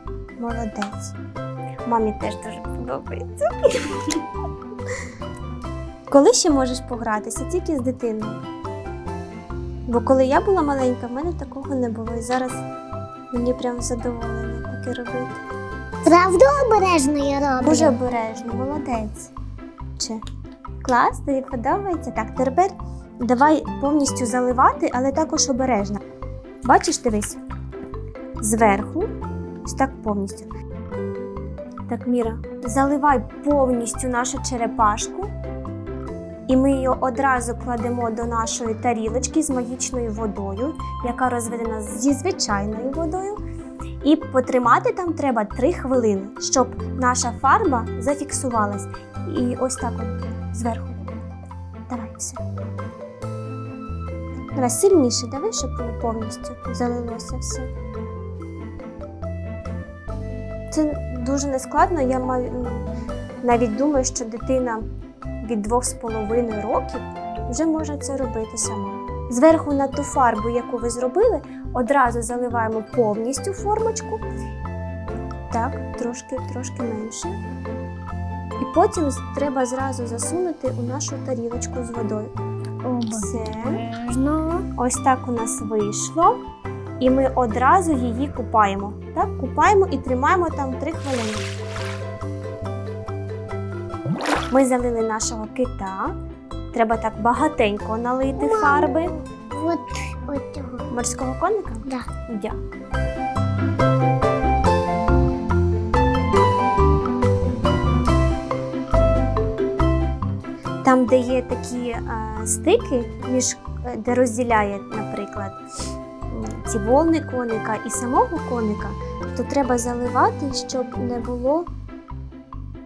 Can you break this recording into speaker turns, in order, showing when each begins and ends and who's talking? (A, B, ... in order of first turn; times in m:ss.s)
0:00.4-0:01.1 A
0:01.8-0:04.2 A
0:06.1-0:08.4 A
0:09.9-0:12.6 A
0:13.3-0:15.4 A
0:16.0-0:18.0 B
0:17.6-0:19.3 A
0:20.8-0:26.0 A
0:26.6-0:27.4 A
0:28.4-0:29.1 A
0:29.6-0:30.5 A
0:31.9-0:35.3 A
0:36.5-0:43.4 A
0:44.0-0:51.2 A
0:51.9-0:52.4 A
0:54.5-0:57.7 A
1:00.7-1:02.8 A
1:03.4-1:04.8 A
1:05.4-1:14.2 A
1:15.5-1:17.4 A
1:18.6-1:22.3 A
1:22.8-1:24.7 B
1:23.1-1:23.8 A
1:24.8-1:26.4 A
1:27.0-1:31.5 A
1:34.5-1:36.2 A
1:36.7-1:39.1 A
1:38.4-1:40.9 B
1:40.9-1:42.6 A
1:50.8-1:55.6 A
1:56.3-2:01.7 A